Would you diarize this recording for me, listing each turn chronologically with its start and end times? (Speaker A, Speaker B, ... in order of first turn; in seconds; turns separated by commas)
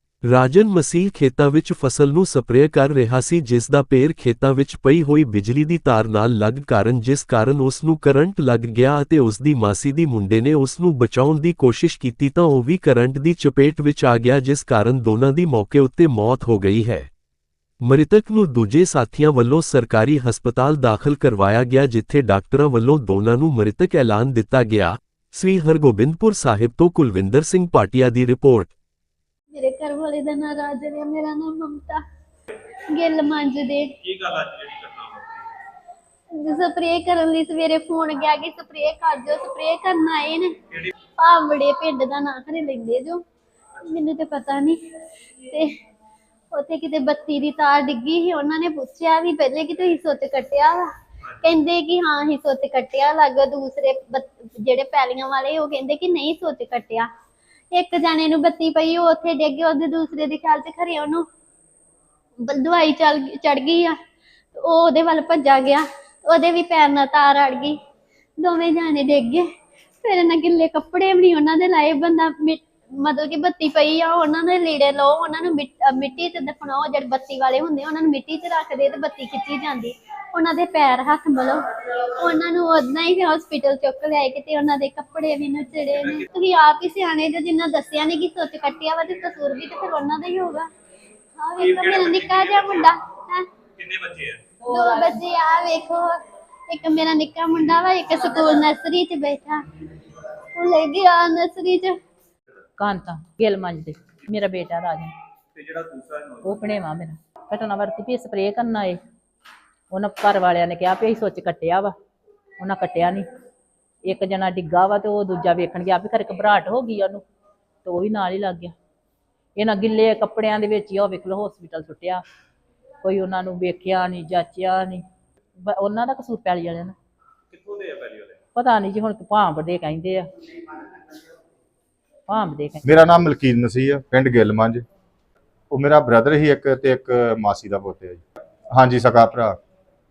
Speaker A: 0.2-17.1, Speaker A: 17.8-28.7, Speaker B: 29.5-32.0, Speaker B: 32.9-33.9, Speaker C: 34.0-35.5, Speaker B: 36.3-40.5, Speaker B: 41.2-43.2, Speaker B: 43.8-44.8, Speaker B: 45.4-45.7, Speaker B: 46.5-50.9, Speaker B: 51.4-57.1, Speaker B: 57.7-61.2, Speaker B: 62.4-64.0, Speaker B: 64.5-67.8, Speaker B: 68.4-69.5, Speaker B: 70.0-90.7, Speaker C: 86.0-86.2, Speaker B: 91.4-93.5, Speaker C: 91.6-92.9, Speaker C: 93.8-94.5, Speaker B: 94.6-96.2, Speaker B: 96.7-99.6, Speaker B: 100.5-102.0, Speaker D: 102.8-105.1, Speaker C: 105.5-106.6, Speaker D: 106.4-109.0, Speaker D: 109.9-111.9, Speaker D: 112.6-113.2, Speaker D: 114.0-117.2, Speaker D: 117.8-118.7, Speaker D: 119.5-122.2, Speaker D: 123.0-125.0, Speaker D: 125.6-126.9, Speaker C: 127.5-128.4, Speaker D: 128.5-130.3, Speaker D: 132.3-132.9, Speaker E: 132.8-134.8, Speaker E: 135.7-139.6